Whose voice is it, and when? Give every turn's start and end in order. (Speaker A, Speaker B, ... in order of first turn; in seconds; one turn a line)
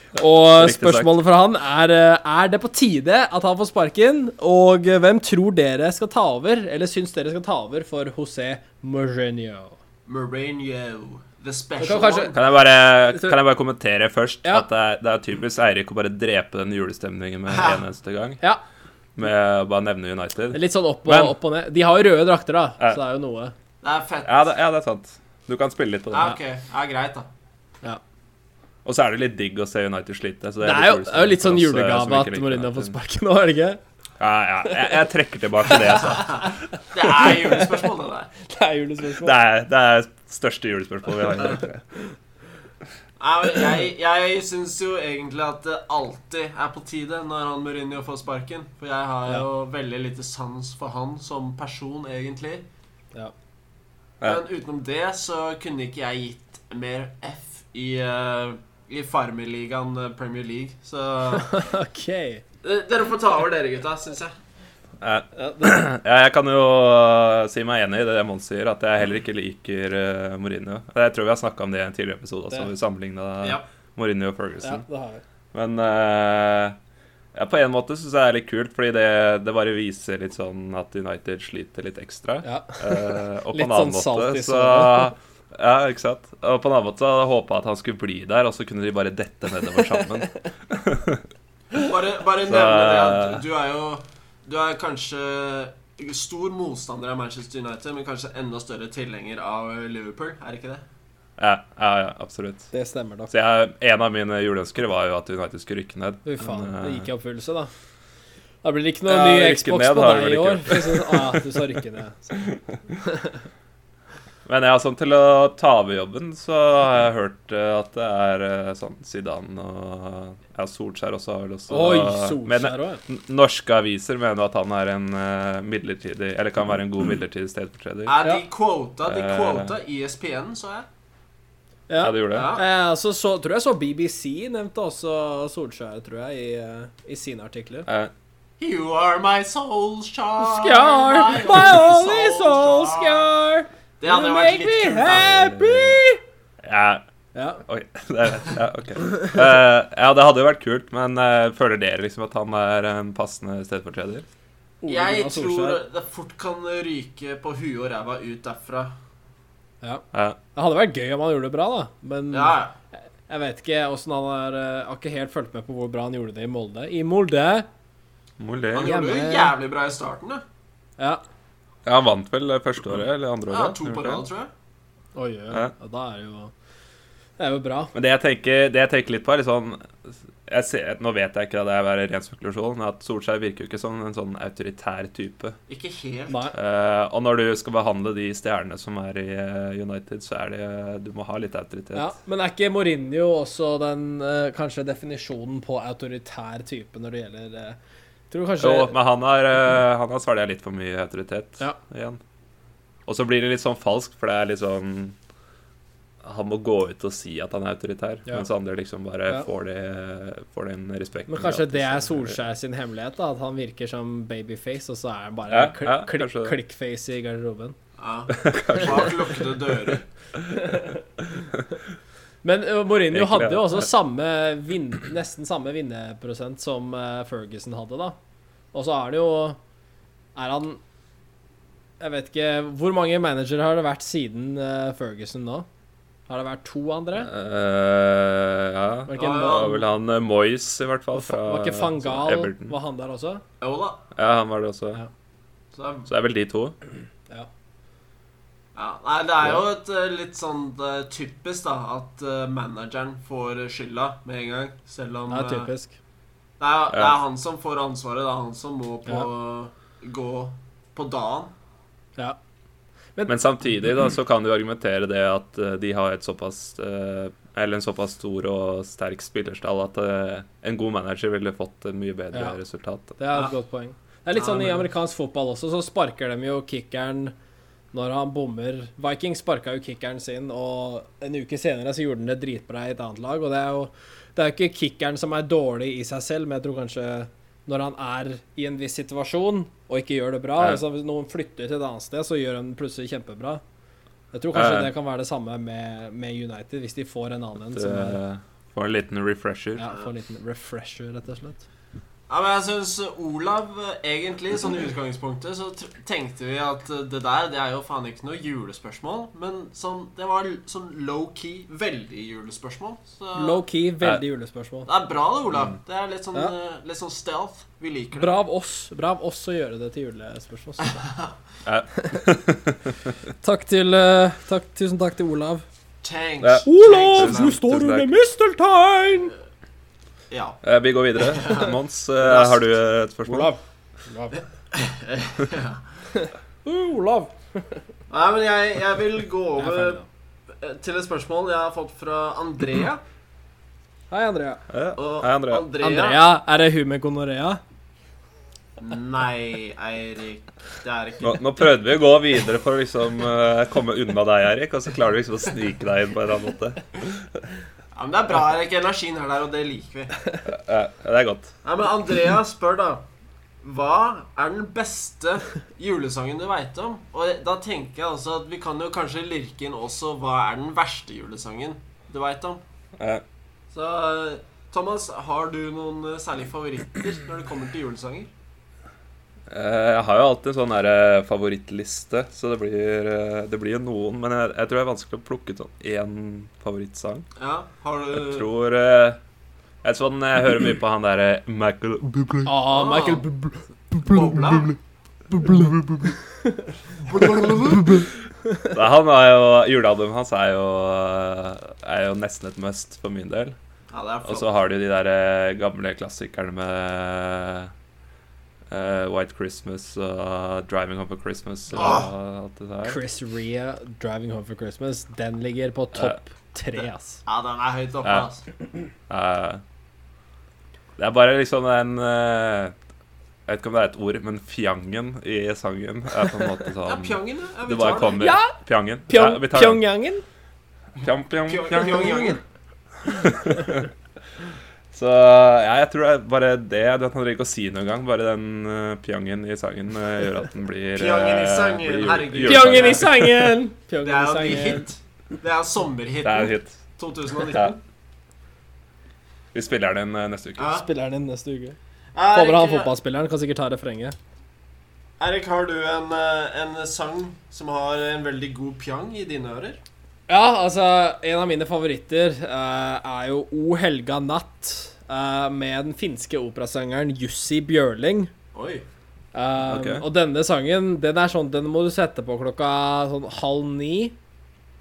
Speaker A: 0.1-9.8
Speaker B: 0.2-1.2
Speaker C: 10.1-12.4
Speaker A: 11.8-12.3
Speaker B: 12.3-18.4
Speaker A: 13.1-13.4
Speaker C: 17.5-17.8
Speaker B: 19.1-21.3
Speaker A: 20.5-23.5
Speaker C: 23.8-24.4
Speaker B: 24.2-26.3
Speaker C: 26.1-27.3
Speaker B: 28.8-32.9
Speaker A: 30.6-33.8
Speaker B: 34.2-36.6
Speaker C: 36.0-38.3
Speaker A: 37.0-37.7
Speaker A: 38.4-39.4
Speaker B: 39.2-41.8
Speaker C: 43.2-52.6
Speaker C: 54.2-61.6
Speaker A: 61.3-62.4
Speaker C: 62.6-64.3
Speaker B: 65.0-74.8
Speaker A: 65.3-65.8
Speaker A: 74.6-75.2
Speaker B: 75.5-76.8
Speaker B: 77.3-91.2
Speaker A: 82.4-85.1
Speaker C: 91.7-100.8
Speaker B: 92.4-93.4
Speaker B: 101.4-102.7
Speaker A: 102.7-103.3
Speaker B: 103.3-107.0
Speaker A: 106.2-107.7
Speaker A: 108.6-112.5
Speaker B: 109.1-111.6
Speaker B: 112.3-112.6
Speaker A: 113.0-113.4
Speaker B: 114.5-128.2
Speaker A: 121.7-123.0
Speaker C: 128.1-130.9
Speaker B: 129.1-129.7
Speaker A: 131.9-137.9
Speaker B: 132.0-132.6
Speaker C: 132.3-132.6
Speaker B: 137.9-138.1
Speaker C: 138.6-143.3
Speaker A: 140.4-146.2
Speaker C: 144.0-145.4
Speaker B: 145.1-146.0
Speaker B: 146.6-147.0
Speaker A: 147.3-147.6
Speaker B: 147.6-154.2
Speaker A: 154.8-155.8
Speaker C: 154.9-158.9
Speaker B: 160.1-160.4
Speaker A: 160.5-162.6
Speaker C: 162.3-162.7
Speaker A: 163.3-167.7
Speaker B: 168.4-168.9
Speaker C: 168.7-170.4
Speaker A: 168.8-169.5
Speaker B: 171.8-174.2
Speaker C: 173.5-174.5
Speaker A: 175.1-176.5
Speaker A: 177.4-177.9
Speaker B: 177.9-185.5
Speaker C: 185.7-186.5
Speaker A: 186.3-186.5
Speaker B: 186.5-192.1
Speaker A: 191.9-197.8
Speaker A: 198.3-198.9
Speaker B: 198.6-202.2
Speaker B: 203.1-205.2
Speaker B: 206.2-212.3
Speaker A: 211.3-217.8
Speaker B: 215.5-216.6
Speaker C: 218.0-220.0
Speaker B: 218.3-219.3
Speaker B: 219.9-220.6
Speaker A: 220.5-221.0
Speaker A: 222.4-228.2
Speaker B: 223.1-223.9
Speaker A: 228.7-229.6
Speaker A: 230.3-230.8
Speaker A: 232.0-235.7
Speaker A: 236.3-237.3
Speaker B: 237.2-242.7
Speaker A: 239.1-239.8
Speaker C: 239.2-239.8
Speaker A: 241.1-243.4
Speaker C: 243.6-244.0
Speaker B: 244.1-245.0
Speaker C: 245.7-246.1
Speaker B: 246.1-246.7
Speaker C: 248.7-255.7
Speaker A: 255.3-255.9
Speaker C: 256.6-261.5
Speaker B: 256.9-257.2
Speaker B: 263.3-273.2
Speaker A: 272.3-272.6
Speaker A: 273.2-277.3
Speaker C: 274.4-274.9
Speaker A: 277.9-293.6
Speaker A: 294.3-298.2
Speaker B: 294.5-294.9
Speaker B: 297.7-299.9
Speaker A: 299.8-301.6
Speaker C: 302.3-313.6
Speaker A: 313.3-314.9
Speaker C: 314.9-318.3
Speaker A: 318.1-321.0
Speaker C: 320.9-321.3
Speaker B: 321.6-323.1
Speaker A: 321.9-322.3
Speaker A: 323.4-325.6
Speaker C: 326.0-327.6
Speaker B: 326.4-328.1
Speaker A: 326.6-329.3
Speaker C: 330.3-330.6
Speaker B: 330.6-333.5
Speaker C: 331.1-332.6
Speaker A: 333.2-334.4
Speaker C: 334.7-335.8
Speaker A: 336.1-337.8
Speaker C: 338.1-340.0
Speaker A: 339.6-340.1
Speaker C: 340.6-343.0
Speaker A: 344.1-344.6
Speaker B: 344.7-345.6
Speaker C: 344.9-346.2
Speaker A: 345.8-347.6
Speaker C: 348.8-351.5
Speaker B: 351.2-357.2
Speaker C: 357.9-360.2
Speaker B: 360.4-361.5
Speaker C: 361.6-363.0
Speaker C: 363.6-372.6
Speaker B: 373.0-373.2
Speaker C: 373.7-378.3
Speaker B: 379.5-387.2
Speaker C: 387.4-388.5
Speaker B: 388.1-389.2
Speaker B: 389.8-392.5
Speaker A: 392.4-394.7
Speaker C: 392.7-393.3
Speaker C: 394.0-394.8
Speaker A: 395.3-396.7
Speaker C: 397.0-398.0
Speaker A: 397.7-398.7
Speaker B: 398.7-403.6
Speaker C: 403.9-404.5
Speaker B: 404.2-407.7
Speaker B: 408.7-413.0
Speaker C: 411.7-412.1
Speaker A: 412.8-417.2
Speaker C: 417.2-418.4
Speaker B: 419.1-419.6
Speaker B: 421.0-422.7
Speaker B: 423.5-429.8
Speaker C: 426.8-428.3
Speaker A: 428.2-428.6
Speaker A: 429.1-430.2
Speaker B: 431.0-432.4
Speaker C: 431.4-432.4
Speaker B: 433.0-433.9
Speaker B: 434.9-443.5
Speaker C: 440.9-443.1
Speaker A: 442.4-444.9
Speaker C: 444.0-447.8
Speaker B: 446.2-446.8
Speaker B: 449.5-450.7
Speaker C: 450.6-450.9
Speaker A: 450.7-451.8
Speaker C: 452.1-452.9
Speaker A: 452.3-454.1
Speaker C: 455.2-459.8
Speaker A: 460.3-468.3
Speaker C: 468.5-468.9
Speaker A: 469.3-474.1
Speaker B: 469.6-470.0